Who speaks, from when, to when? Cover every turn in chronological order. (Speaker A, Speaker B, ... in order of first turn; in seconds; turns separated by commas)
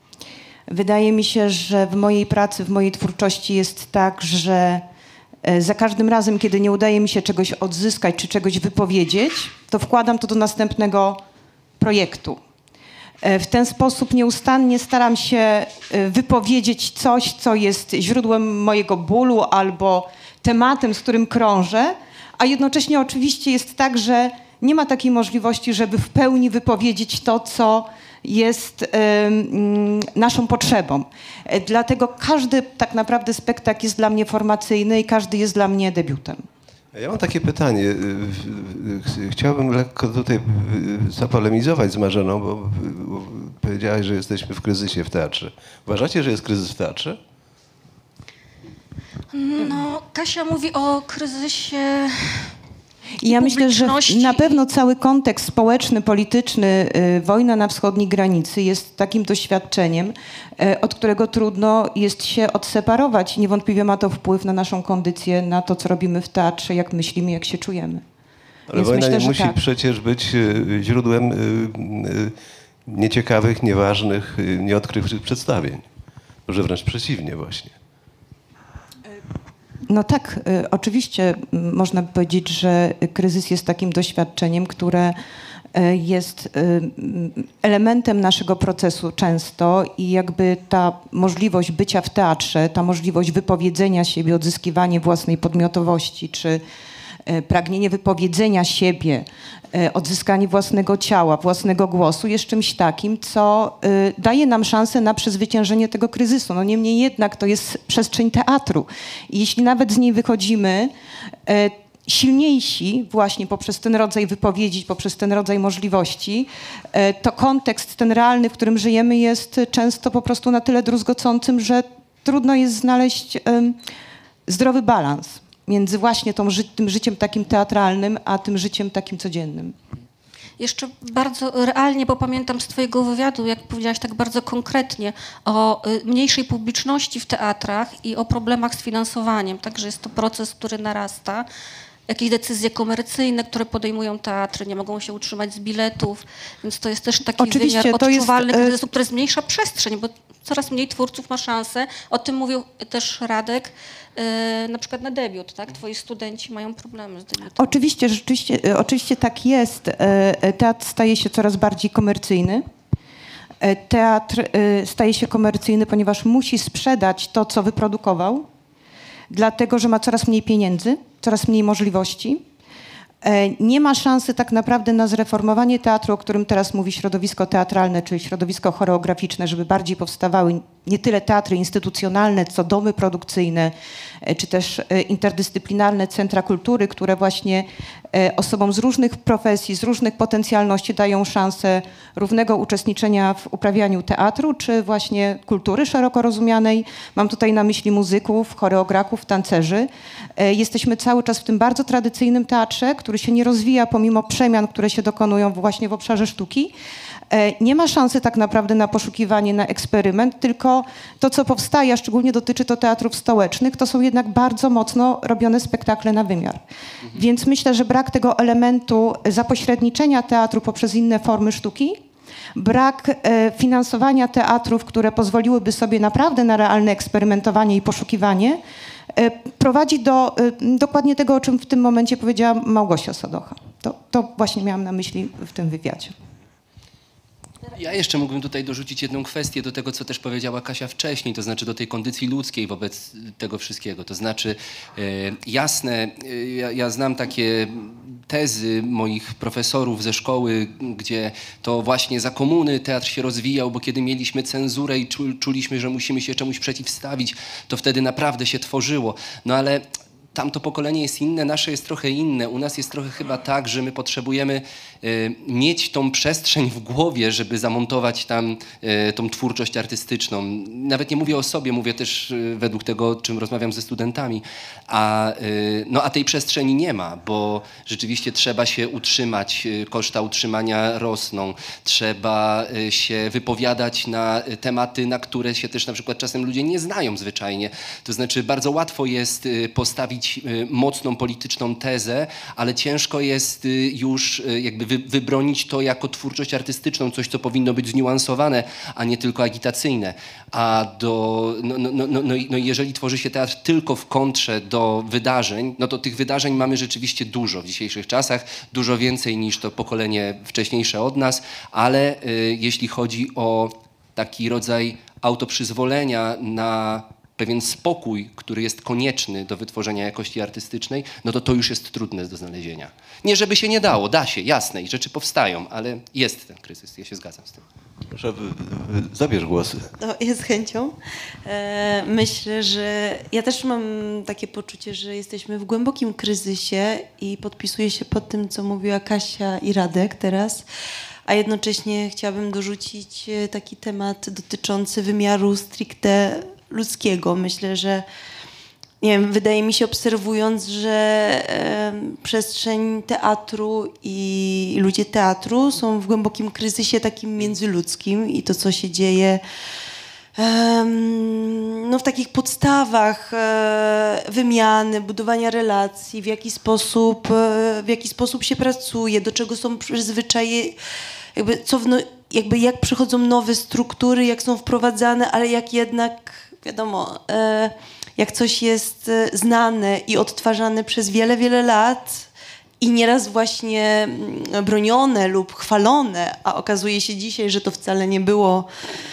Speaker A: 0.7-4.8, Speaker A: 5.4-11.2, Speaker A: 11.8-12.4, Speaker A: 13.2-36.5, Speaker B: 36.9-47.2, Speaker C: 49.3-52.5, Speaker A: 53.2-68.0, Speaker C: 53.2-54.6, Speaker B: 68.7-72.3, Speaker A: 68.7-69.6, Speaker B: 72.9-75.8, Speaker B: 76.5-77.8, Speaker A: 79.9-85.2, Speaker A: 85.7-96.6, Speaker A: 97.3-110.9, Speaker A: 111.5-123.8, Speaker A: 124.5-129.8, Speaker C: 130.6-141.5, Speaker C: 142.1-157.8, Speaker A: 147.4-148.8, Speaker A: 157.6-162.7, Speaker A: 163.6-168.5, Speaker A: 169.3-172.4, Speaker A: 173.2-206.7, Speaker A: 207.3-222.0, Speaker A: 222.6-228.6, Speaker A: 229.1-236.2, Speaker D: 237.7-327.6, Speaker B: 328.1-329.9, Speaker E: 330.0-340.6, Speaker E: 341.3-348.1, Speaker E: 349.0-359.4, Speaker E: 360.4-370.8, Speaker E: 371.4-382.3, Speaker E: 382.8-388.7